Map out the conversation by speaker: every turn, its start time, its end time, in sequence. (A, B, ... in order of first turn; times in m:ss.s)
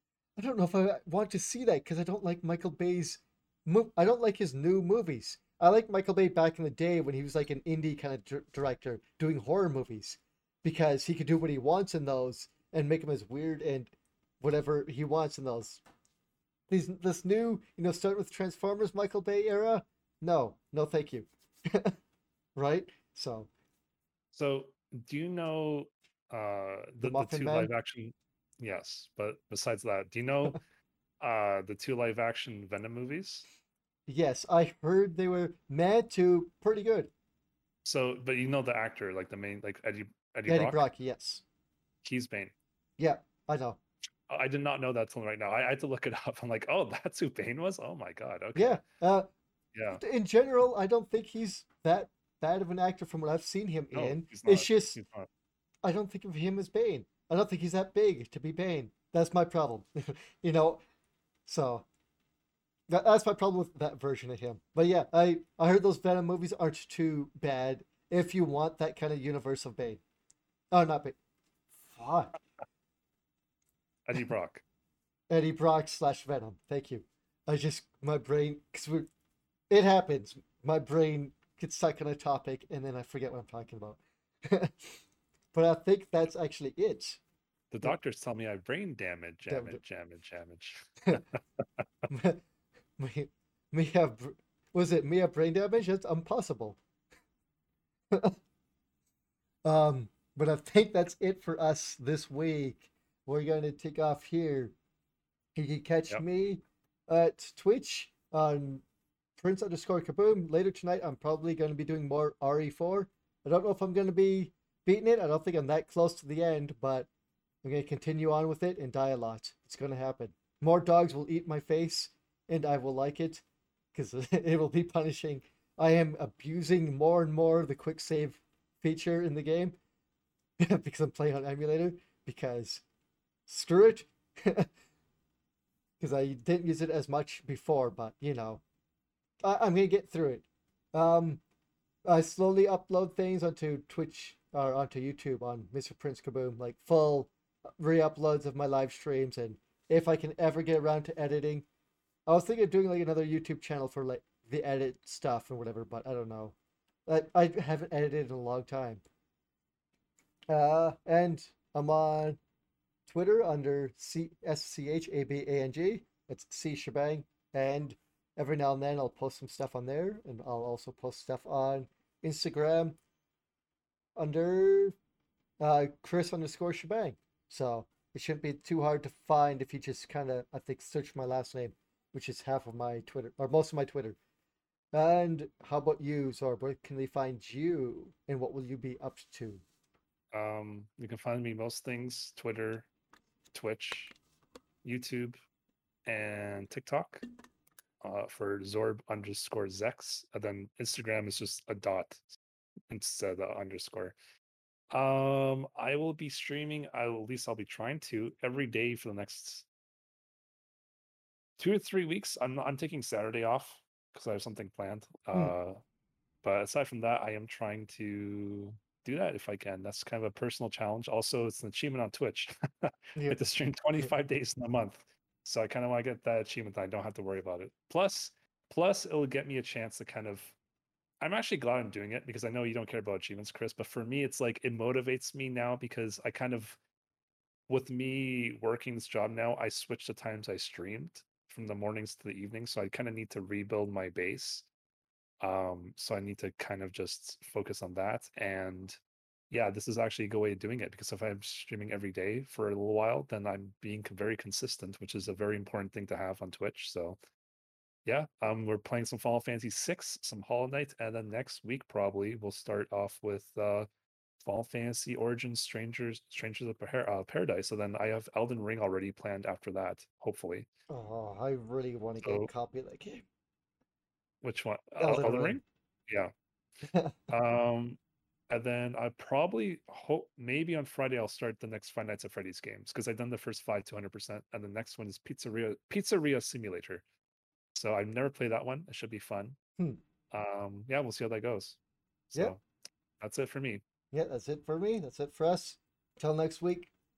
0:00.4-0:15.8 A
0:16.7-0:22.0 A
0:22.6-0:23.5 A
0:24.3-0:30.6 B
0:27.0-0:27.7 A
0:31.2-0:33.5 B
0:34.1-0:37.1 A
0:37.8-0:40.9 B
0:40.5-0:41.4 A
0:42.0-0:42.5 B
0:43.0-0:43.8 A
0:44.3-0:48.8 B
0:48.6-0:49.3 A
0:49.7-0:50.0 B
0:49.9-0:55.0 A
0:53.9-0:55.3 B
0:55.8-1:00.8 A
1:01.5-1:01.9 A
1:02.9-1:10.0 A
1:10.7-1:11.2 A
1:11.9-1:12.4 A
1:14.1-1:14.6 B
1:15.3-1:19.1 A
1:19.7-1:25.0 A
1:25.5-1:27.2 A
1:27.7-1:31.8 B
1:29.5-1:29.8 A
1:32.1-1:32.4 A
1:33.0-1:36.8 A
1:39.6-1:44.7 A
1:45.6-1:48.8 A
1:49.4-1:57.1 A
1:57.6-2:09.8 A
2:10.6-2:12.8 A
2:13.5-2:14.7 A
2:16.0-2:18.6 A
2:19.4-2:21.4 A
2:22.0-2:31.7 A
2:32.3-2:36.6 A
2:37.1-2:39.0 A
2:40.5-2:42.4 A
2:43.1-2:53.0 A
2:54.2-2:55.0 A
2:55.6-3:04.2 A
3:04.9-3:09.6 A
3:10.3-3:12.9 B
3:13.5-3:14.2 B
3:14.8-3:15.4 B
3:16.1-3:17.2 B
3:18.0-3:22.2 B
3:22.9-3:24.2 B
3:24.9-3:29.7 B
3:31.6-3:35.8 B
3:36.4-3:50.6 B
3:51.2-3:56.8 B
3:57.7-4:04.7 B
4:05.4-4:17.2 B
4:18.0-4:23.9 B
4:24.4-4:30.7 B
4:30.9-4:33.2 A
4:32.2-4:32.5 B
4:34.4-4:36.3 B
4:35.0-4:35.6 A
4:36.9-4:37.2 A
4:37.3-4:38.0 B
4:38.5-4:47.0 B
4:47.7-4:49.6 B
4:50.3-4:51.8 B
4:52.3-4:52.6 B
4:53.2-4:53.8 B
4:54.1-4:56.9 A